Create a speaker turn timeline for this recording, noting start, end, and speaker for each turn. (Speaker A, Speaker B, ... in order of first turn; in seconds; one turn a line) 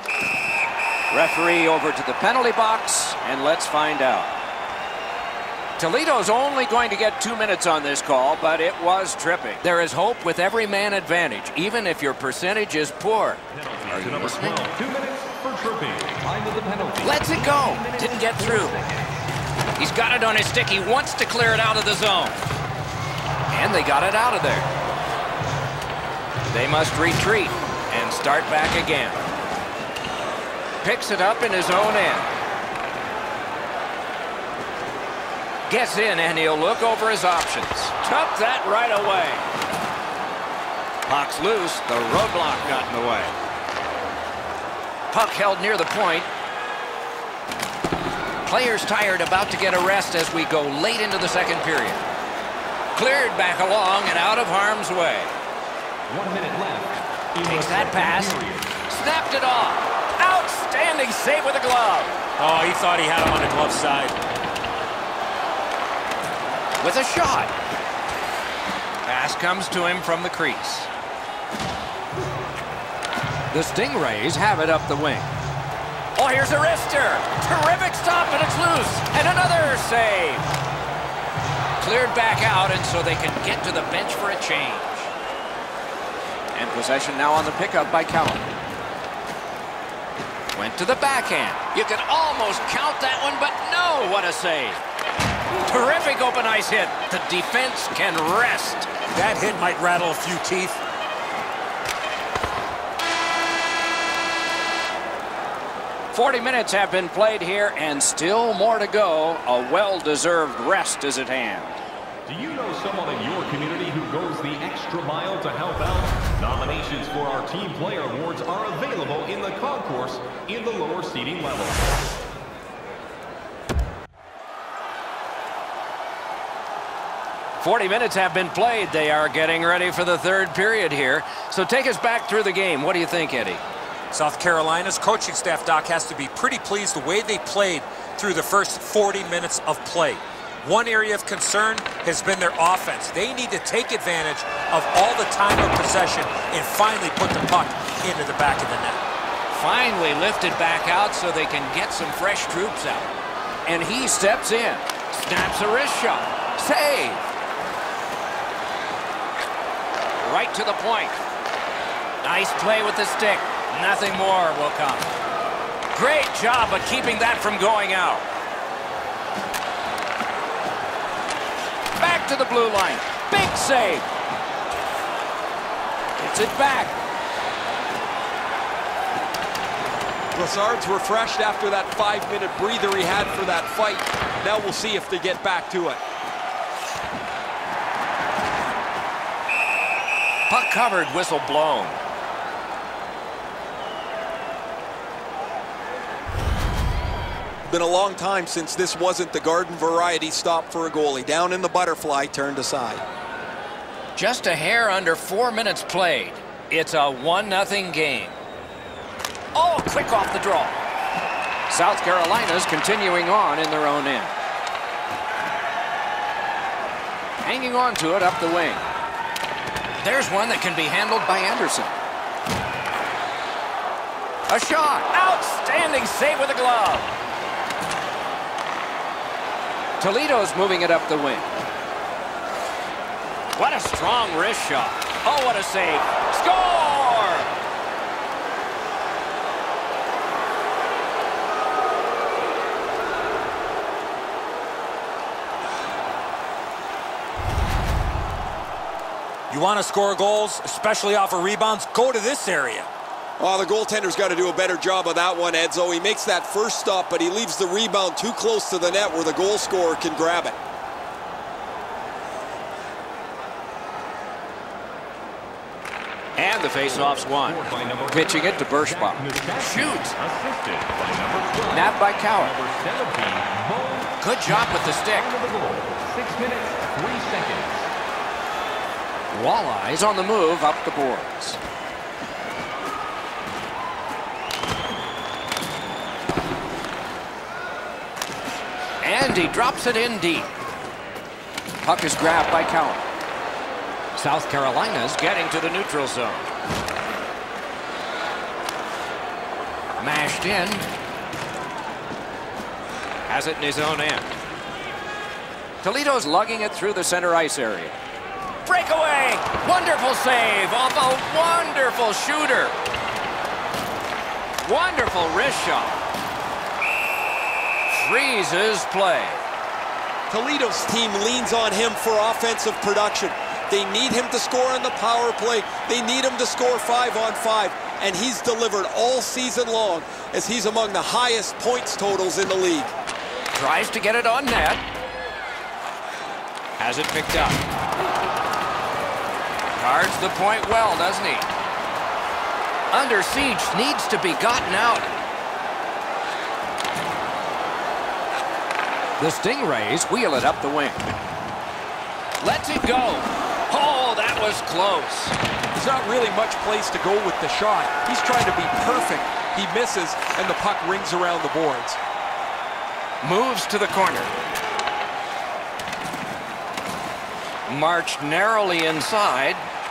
Speaker A: 1.1-4.3
Speaker A: 5.8-14.7
Speaker B: 13.5-19.2
Speaker A: 17.0-18.8
Speaker A: 19.8-22.4
Speaker A: 23.5-24.7
Speaker A: 26.5-29.2
Speaker A: 30.8-32.3
Speaker A: 35.7-39.5
Speaker A: 41.1-43.4
Speaker A: 45.1-46.3
Speaker A: 48.5-52.0
Speaker A: 53.0-55.4
Speaker B: 56.1-58.8
Speaker A: 57.5-62.1
Speaker C: 62.4-64.2
Speaker A: 66.8-67.5
Speaker A: 69.1-70.9
Speaker A: 73.5-75.3
Speaker A: 76.2-80.5
Speaker A: 81.8-85.1
Speaker A: 86.5-88.5
Speaker A: 90.5-94.8
Speaker A: 95.6-98.9
Speaker C: 99.1-100.8
Speaker A: 106.1-111.8
Speaker B: 112.3-121.9
Speaker A: 127.6-133.6
Speaker C: 134.1-149.0
Speaker A: 149.5-153.1
Speaker A: 153.7-157.3
Speaker A: 160.2-161.2
Speaker A: 162.2-165.1
Speaker A: 165.9-168.3
Speaker A: 172.0-174.1
Speaker A: 176.2-177.0
Speaker D: 180.3-186.0
Speaker A: 190.5-192.0
Speaker D: 197.7-203.0
Speaker A: 204.2-208.4
Speaker A: 209.5-210.8
Speaker A: 211.7-214.3
Speaker A: 217.4-218.9
Speaker A: 220.0-221.9
Speaker A: 224.5-227.1
Speaker A: 230.0-231.5
Speaker A: 233.6-237.5
Speaker C: 249.5-252.9
Speaker D: 253.4-260.6
Speaker A: 266.4-270.2
Speaker B: 266.8-277.9
Speaker A: 271.7-272.5
Speaker A: 274.2-275.3
Speaker A: 279.3-281.6
Speaker A: 289.0-290.6
Speaker A: 291.8-293.1
Speaker A: 294.1-296.5
Speaker A: 300.0-300.9
Speaker A: 303.3-304.3
Speaker A: 305.8-308.0
Speaker A: 308.6-312.8
Speaker A: 314.6-316.0
Speaker A: 317.9-319.4
Speaker D: 320.3-332.9
Speaker A: 333.5-334.8
Speaker A: 336.8-337.6
Speaker A: 339.8-341.5
Speaker A: 342.9-345.1
Speaker A: 349.2-351.1
Speaker A: 352.4-355.4
Speaker D: 355.8-362.0
Speaker A: 363.2-364.3
Speaker A: 367.7-369.7